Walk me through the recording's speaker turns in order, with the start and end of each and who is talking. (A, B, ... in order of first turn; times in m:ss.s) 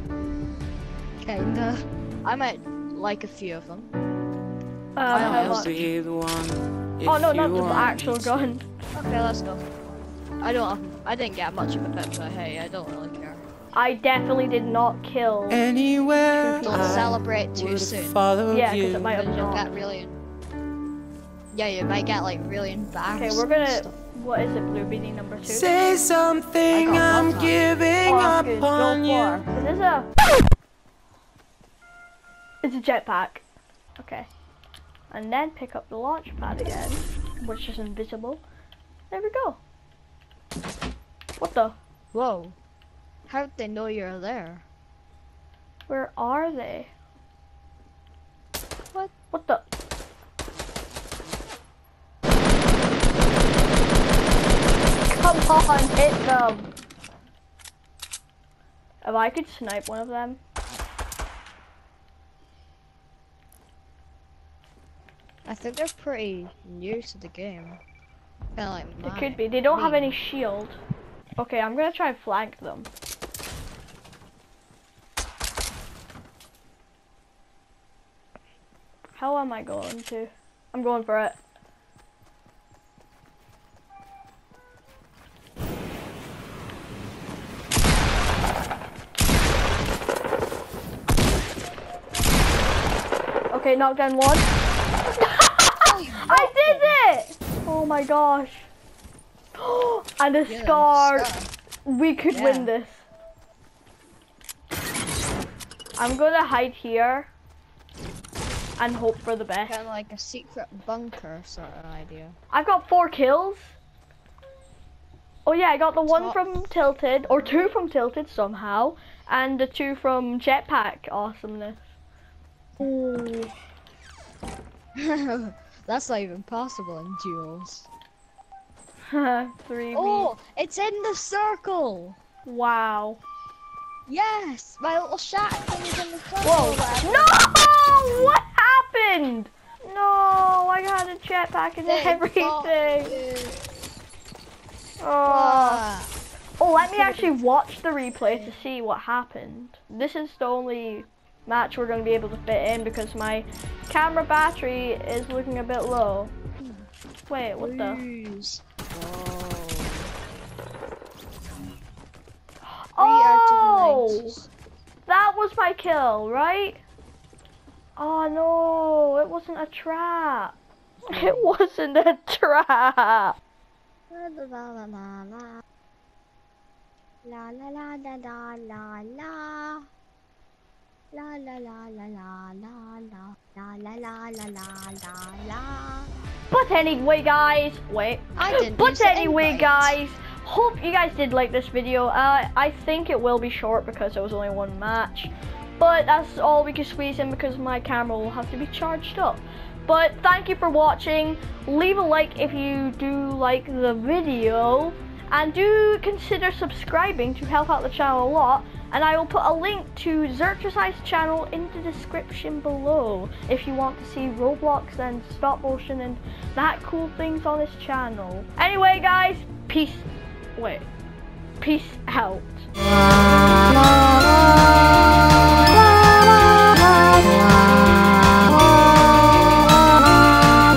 0:01.2-0:03.9 A
0:05.0-0:05.7 B
0:05.1-0:05.9 A
0:05.1-0:08.5 C
0:07.0-0:08.6 B
0:08.9-0:09.7 A
0:10.4-0:13.4 A
0:13.7-0:15.7 B
0:15.5-0:19.2 C
0:16.4-0:17.1 B
0:16.6-0:18.2 A
0:18.5-0:19.7 B
0:19.1-0:20.2 A
0:21.5-0:24.0 A
0:23.2-0:25.7 B
0:25.4-0:29.5 C
0:26.7-0:27.6 A
0:28.0-0:28.9 B
0:28.8-0:29.4 A
0:29.5-0:30.1 B
0:32.6-0:33.4 B
0:34.0-0:34.3 B
0:35.1-0:38.4 B
0:39.1-0:39.6 B
0:41.4-0:41.8 B
0:42.1-0:42.6 A
0:43.3-0:44.6 A
0:45.9-0:46.9 B
0:49.3-0:49.6 B
0:55.0-0:56.7 B
0:59.0-1:00.4 B
1:05.5-1:07.8 A
1:08.6-1:10.2 A
1:09.0-1:10.8 B
1:11.4-1:12.9 B
1:19.1-1:21.4 B
1:33.5-1:34.5 B
1:35.1-1:38.7 B
1:35.8-1:37.0 A
1:39.6-1:41.3 B
1:40.5-1:41.5 A
1:41.9-1:43.0 B
1:42.3-1:42.7 A
1:46.0-1:47.3 B
1:48.8-1:49.8 B
1:49.7-1:52.4 A
1:52.5-1:53.8 B
1:55.5-2:01.8 B
1:56.1-1:56.6 A
1:57.3-1:57.7 A
2:02.8-2:03.5 B
2:05.0-2:07.9 A
2:09.1-2:10.3 B
2:09.9-2:12.2 A
2:12.4-2:13.2 B
2:14.1-2:17.4 A
2:16.4-2:23.2 B
2:21.9-2:23.7 A
2:25.0-2:25.8 B
2:25.2-2:26.1 A
2:26.6-2:36.3 B
2:26.8-2:27.4 A
2:28.2-2:28.5 A
2:36.6-2:36.9 A
2:37.3-2:38.0 B
2:37.6-2:40.1 A
2:42.7-2:44.4 B
2:43.0-2:44.5 A
2:45.1-2:46.8 B
2:48.0-2:50.6 B
2:51.1-2:51.6 A
2:51.1-2:53.4 B
2:54.1-2:55.6 A
2:57.2-2:59.9 A
3:01.1-3:06.1 A
3:06.5-3:40.9 B
3:08.4-3:10.0 A
3:41.6-3:42.7 B
3:42.8-3:49.9 A